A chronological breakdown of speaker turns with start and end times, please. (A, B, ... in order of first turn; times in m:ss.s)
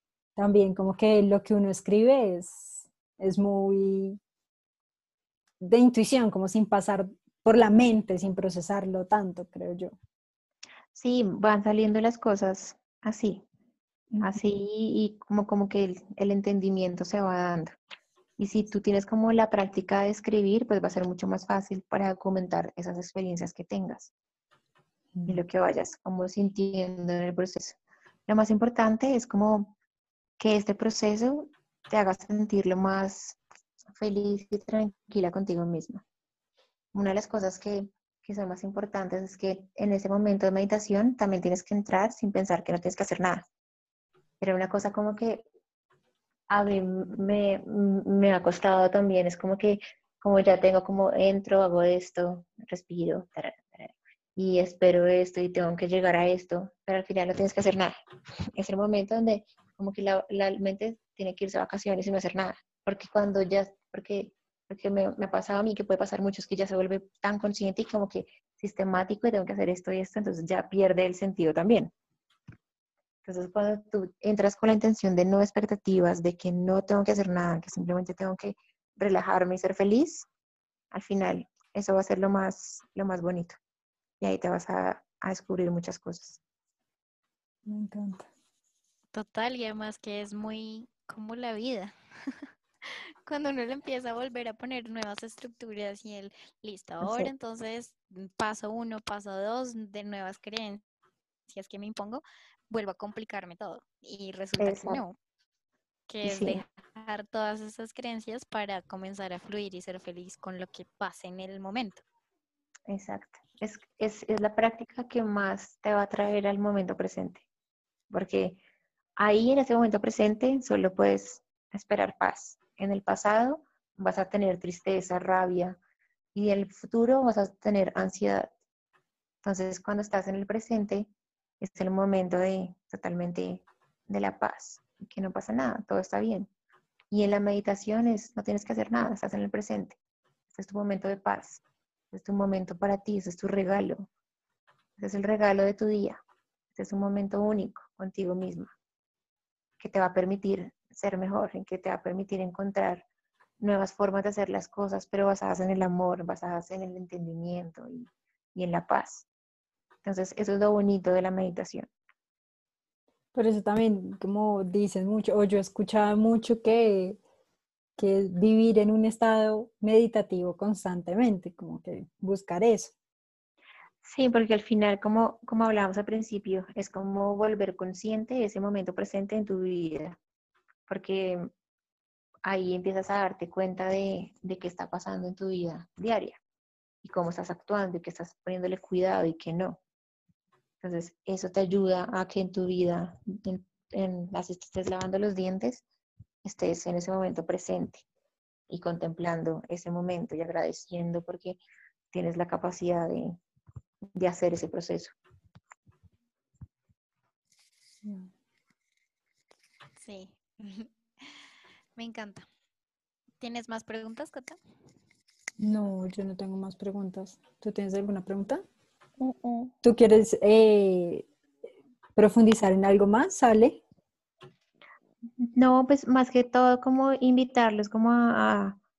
0:00.4-0:04.2 A
0:05.6-0:10.0 A
0:10.9-0:13.4 B
0:14.2-0:17.8 B
0:18.4-0:24.1 B
0:25.2-0:29.7 B
0:30.4-0:33.4 B
0:33.9-0:36.0 B
0:36.9-0:43.4 B
0:44.4-0:45.4 B
0:46.5-0:57.9 B
0:58.6-1:11.9 B
1:13.2-1:20.3 B
1:20.9-1:23.6 B
1:24.2-1:26.4 B
1:27.7-1:28.3 A
1:29.1-1:40.8 C
1:37.0-1:37.3 B
1:41.5-1:45.2 C
1:44.6-1:45.0 B
1:46.1-1:52.0 C
1:46.2-1:46.6 B
1:52.9-1:57.4 B
1:58.1-1:58.6 B
1:59.2-2:05.8 B
2:06.3-2:08.5 B
2:09.4-2:16.5 B
2:17.1-2:20.0 B
2:20.5-2:24.1 B
2:25.0-2:26.2 B
2:26.7-2:28.7 B
2:29.8-2:33.0 B
2:33.6-2:39.3 B
2:40.0-2:41.9 B
2:43.3-2:47.2 A
2:48.0-2:52.9 A
2:54.0-3:00.2 B
3:00.9-3:01.5 B
3:02.4-3:06.4 B
3:07.0-3:09.8 B
3:10.8-3:15.8 B
3:16.4-3:18.0 B
3:18.7-3:21.6 B
3:22.1-3:23.4 B
3:24.1-3:25.1 B
3:28.0-3:28.3 A
3:30.0-3:31.4 C
3:32.0-3:32.4 C
3:33.4-3:34.6 C
3:35.6-3:38.6 A
3:39.2-3:39.7 B
3:39.8-3:41.3 A
3:42.2-3:43.8 A
3:45.4-3:48.8 B